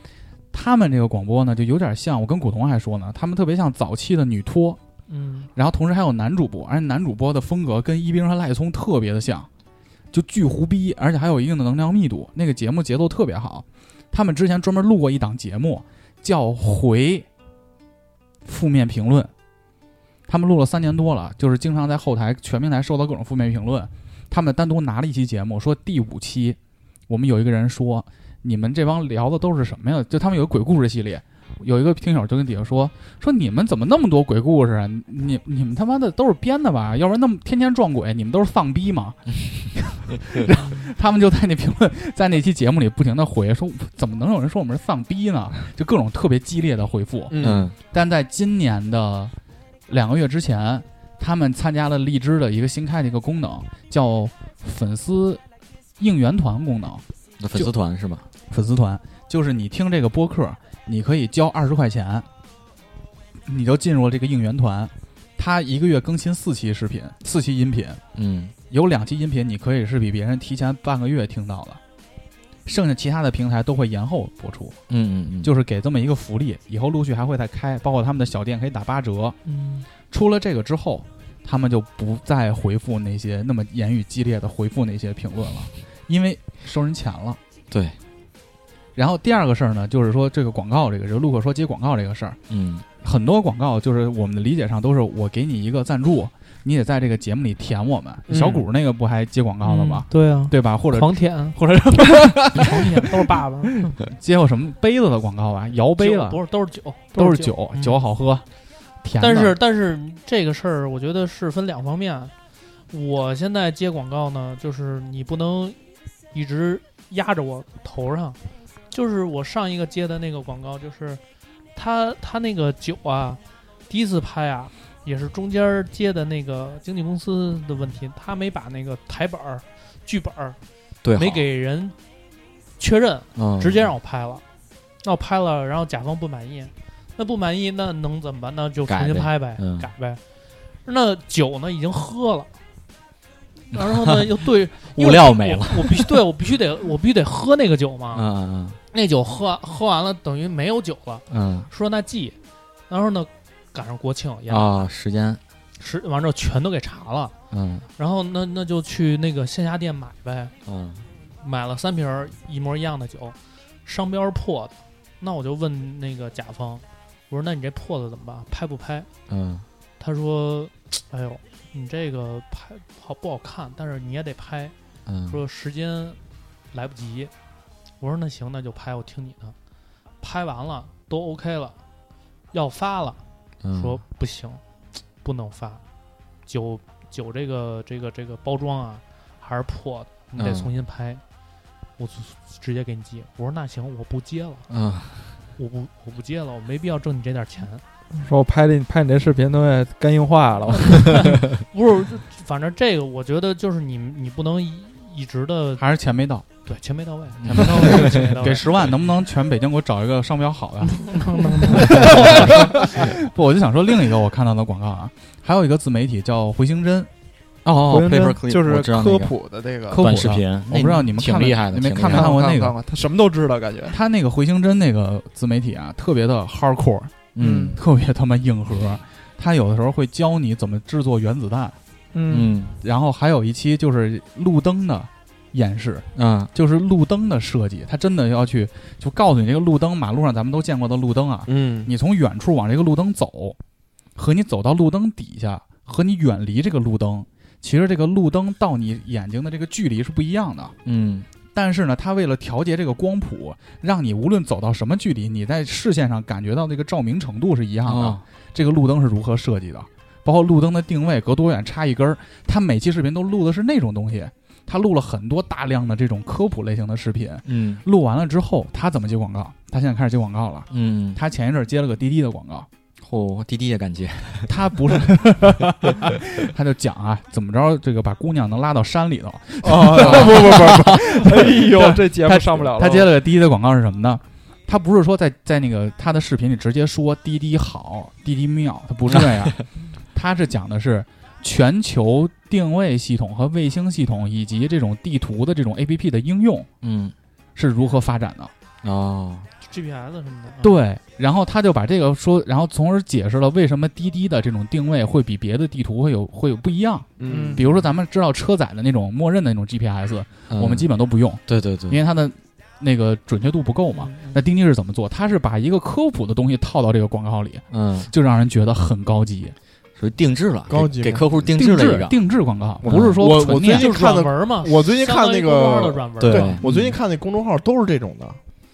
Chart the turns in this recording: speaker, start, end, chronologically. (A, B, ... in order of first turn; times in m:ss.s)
0:00.5-0:04.8 A
0:05.1-0:05.5 B
0:05.6-0:09.5 A
0:10.1-0:17.3 A
0:18.4-0:19.3 A
0:20.3-0:26.6 A
0:27.1-0:49.3 A
0:47.3-0:47.7 C
0:47.4-0:47.8 D
0:49.9-0:55.4 A
0:56.0-0:57.0 A
0:57.4-0:58.3 D
0:58.5-1:02.3 A
1:03.5-1:08.0 A
1:08.2-1:08.5 D
1:08.7-1:11.8 A
1:12.7-1:14.8 A
1:14.9-1:15.5 D
1:15.4-1:19.4 A
1:19.5-1:19.8 B
1:20.1-1:27.4 A
1:27.7-1:28.0 D
1:29.0-1:32.4 A
1:32.5-1:32.8 D
1:33.0-1:43.1 A
1:38.3-1:38.6 C
1:39.6-1:41.6 B
1:42.6-1:43.7 B
1:44.0-1:46.4 A
1:46.0-1:48.0 B
1:47.1-1:48.4 A
1:49.0-1:49.6 A
1:49.2-1:52.3 B
1:52.9-1:55.8 B
1:56.3-1:58.4 B
1:58.9-2:01.2 B
2:01.8-2:10.6 B
2:11.0-2:11.5 D
2:11.2-2:12.0 B
2:12.8-2:14.4 B
2:13.4-2:13.9 D
2:15.0-2:20.2 B
2:18.9-2:19.9 D
2:20.8-2:22.5 B
2:23.7-2:28.3 B
2:23.8-2:24.3 D
2:24.8-2:26.2 D
2:28.1-2:28.8 D
2:28.9-2:32.4 B
2:31.3-2:31.7 D
2:32.9-2:34.7 B
2:34.5-2:35.4 D
2:35.8-2:37.4 B
2:37.5-2:37.9 D
2:38.0-2:40.5 B
2:40.7-2:41.0 D
2:41.4-2:49.1 B
2:49.3-2:49.6 D
2:50.0-2:54.7 B
2:55.1-2:55.4 D
2:55.3-2:56.2 B
2:56.7-2:57.3 B
2:58.0-2:59.6 B
3:00.2-3:01.8 B
3:02.5-3:03.2 B
3:03.6-3:04.0 D
3:03.7-3:04.6 B
3:05.2-3:05.8 B
3:06.5-3:11.2 B
3:10.4-3:10.7 D
3:12.0-3:14.7 B
3:14.7-3:15.2 D
3:15.6-3:17.8 B
3:18.2-3:21.6 E
3:21.7-3:25.8 B
3:25.8-3:26.5 A
3:26.6-3:28.9 B
3:27.4-3:28.2 D
3:27.5-3:37.1 A
3:30.8-3:33.0 B
3:37.6-3:39.4 D
3:37.9-3:40.0 E
3:39.9-3:42.8 A
3:40.0-3:42.3 D
3:42.0-3:44.0 E
3:43.9-3:51.8 A
3:47.4-3:47.8 D
3:47.4-3:47.8 E
3:52.1-3:52.6 E
3:52.3-3:52.7 D
3:52.8-4:03.6 A
3:56.2-3:56.5 D
4:01.5-4:01.9 C
4:04.2-4:10.8 A
4:10.8-4:11.3 D
4:11.5-4:32.7 A
4:17.9-4:18.2 D
4:27.5-4:27.8 D
4:30.7-4:31.2 D
4:33.0-4:34.5 D
4:34.5-4:56.7 A
4:39.6-4:43.1 E
4:49.1-4:49.6 D
4:56.8-4:57.1 D
4:57.6-4:58.5 A
4:58.8-4:59.5 D
4:59.6-5:00.8 B
5:00.6-5:19.6 A
5:07.2-5:07.7 C
5:07.2-5:07.6 E
5:10.5-5:10.9 D
5:11.5-5:12.0 D
5:13.9-5:14.4 B
5:17.7-5:18.1 D
5:20.0-5:22.1 D
5:20.7-5:21.2 C
5:21.6-5:23.9 A
5:22.8-5:23.2 D
5:23.2-5:28.4 C
5:23.7-5:26.6 B
5:26.2-5:27.0 D